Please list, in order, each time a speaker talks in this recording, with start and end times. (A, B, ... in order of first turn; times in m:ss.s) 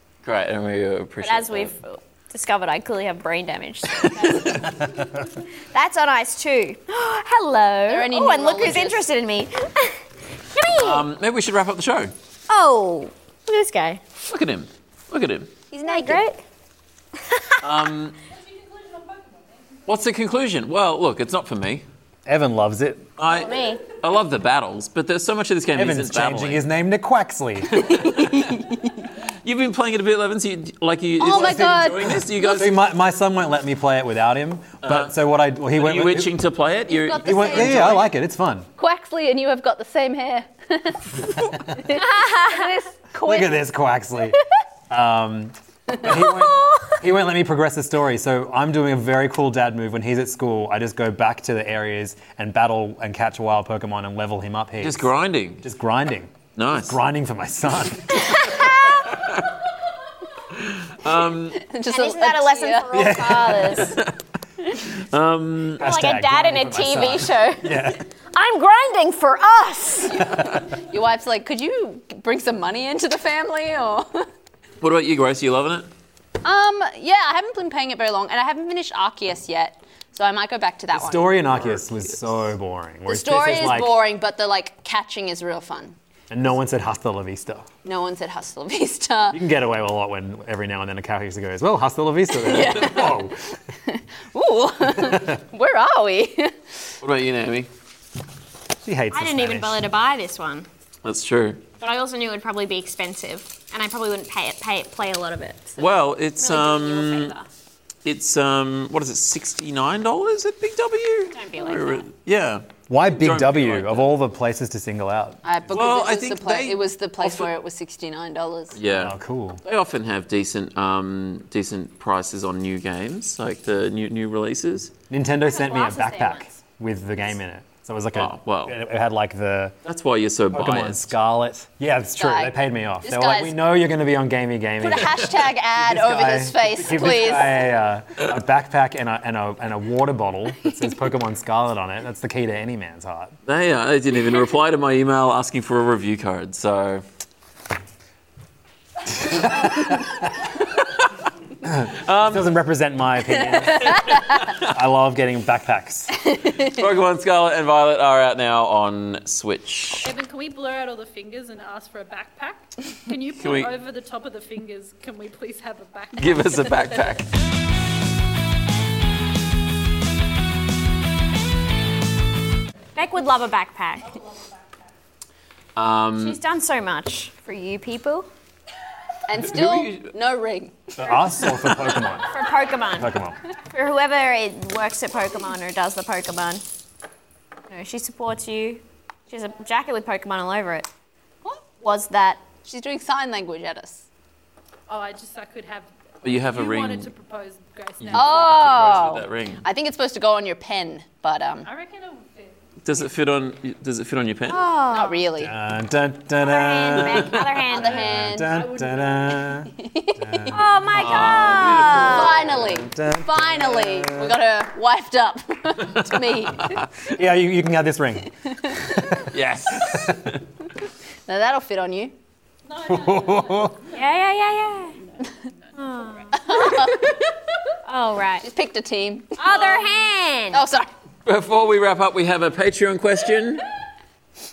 0:00.2-0:01.7 A
0:01.2-0:04.8 B
0:05.7-0:10.0 B
0:07.9-0:09.0 C
0:10.5-0:11.0 B
0:10.8-0:12.1 A
0:12.5-0:14.0 B
0:14.2-0:15.5 A
0:15.7-0:16.2 C
0:15.9-0:16.4 B
0:17.2-0:17.6 B
0:17.6-0:18.2 A
0:18.7-0:19.5 D
0:19.8-0:21.8 A
0:22.2-0:23.1 E
0:23.2-0:26.6 A
0:23.2-0:23.8 B
0:25.7-0:27.9 E
0:27.8-0:29.0 C
0:27.8-0:28.5 A
0:29.4-0:32.8 A
0:31.2-0:32.6 C
0:31.2-0:36.3 E
0:34.8-0:35.1 A
0:35.8-0:38.0 A
0:36.9-0:38.1 C
0:37.2-0:38.7 E
0:38.8-0:43.6 C
0:41.9-0:42.7 B
0:43.2-0:58.6 E
0:46.5-0:46.9 B
0:54.8-0:55.6 A
0:56.6-0:57.0 A
0:58.3-0:59.0 B
0:59.1-0:59.4 A
1:00.5-1:01.7 A
1:01.5-1:02.9 C
1:01.9-1:04.0 B
1:02.9-1:04.0 E
1:04.7-1:05.8 A
1:05.8-1:08.0 E
1:05.8-1:10.2 B
1:10.2-1:14.3 C
1:10.2-1:10.7 E
1:14.8-1:15.9 A
1:16.4-1:21.4 C
1:20.9-1:24.0 E
1:21.6-1:22.2 A
1:23.1-1:26.0 C
1:26.3-1:27.7 E
1:27.8-1:29.4 C
1:29.3-1:33.4 E
1:32.4-1:36.6 C
1:34.9-1:35.4 E
1:37.0-1:37.7 A
1:38.8-1:39.8 E
1:39.1-1:40.7 B
1:41.0-1:41.6 A
1:41.8-1:47.4 B
1:45.8-1:47.3 A
1:48.0-1:54.1 A
1:51.3-1:52.1 B
1:52.9-1:55.4 E
1:55.4-1:58.8 C
1:55.7-1:57.5 A
1:58.7-2:04.9 A
1:58.9-1:59.6 E
2:05.1-2:09.8 E
2:05.4-2:06.5 B
2:08.1-2:08.8 A
2:09.8-2:11.1 A
2:10.5-2:23.3 E
2:12.2-2:13.6 C
2:14.8-2:17.7 C
2:23.4-2:27.0 A
2:29.5-2:30.0 A
2:31.6-2:36.2 E
2:31.8-2:32.5 A
2:36.2-2:36.8 C
2:36.6-2:40.1 A
2:40.0-2:47.1 D
2:43.4-2:43.8 A
2:46.2-2:47.3 A
2:53.0-2:54.2 B
2:55.8-2:56.4 A
2:56.2-2:58.3 B
2:59.3-3:01.2 C
2:59.4-3:00.1 A
3:01.0-3:02.3 E
3:02.2-3:06.6 B
3:02.9-3:03.4 E
3:07.7-3:10.9 B
3:11.8-3:12.4 B
3:12.6-3:14.0 C
3:14.9-3:19.0 D
3:16.2-3:17.1 A
3:18.0-3:19.6 A
3:18.1-3:21.7 C
3:21.6-3:23.1 D
3:22.8-3:24.6 A
3:24.5-3:25.2 B
3:24.9-3:25.5 C
3:25.4-3:30.6 E
3:26.4-3:28.0 B
3:27.7-3:28.6 C
3:28.5-3:29.6 D
3:29.7-3:30.6 C
3:30.5-3:32.4 B
3:30.9-3:32.6 A
3:32.0-3:36.8 C
3:32.5-3:34.4 E
3:36.6-3:37.0 A
3:37.0-3:40.3 E
3:39.2-3:40.4 A
3:41.3-3:42.1 C
3:42.7-3:43.8 D
3:42.8-3:43.8 E
3:43.9-3:45.0 B
3:45.8-3:47.0 B
3:46.4-3:47.4 C
3:47.8-3:48.4 B
3:48.4-3:49.6 C
3:49.4-3:50.6 B
3:50.5-3:50.9 C
3:51.2-3:53.6 A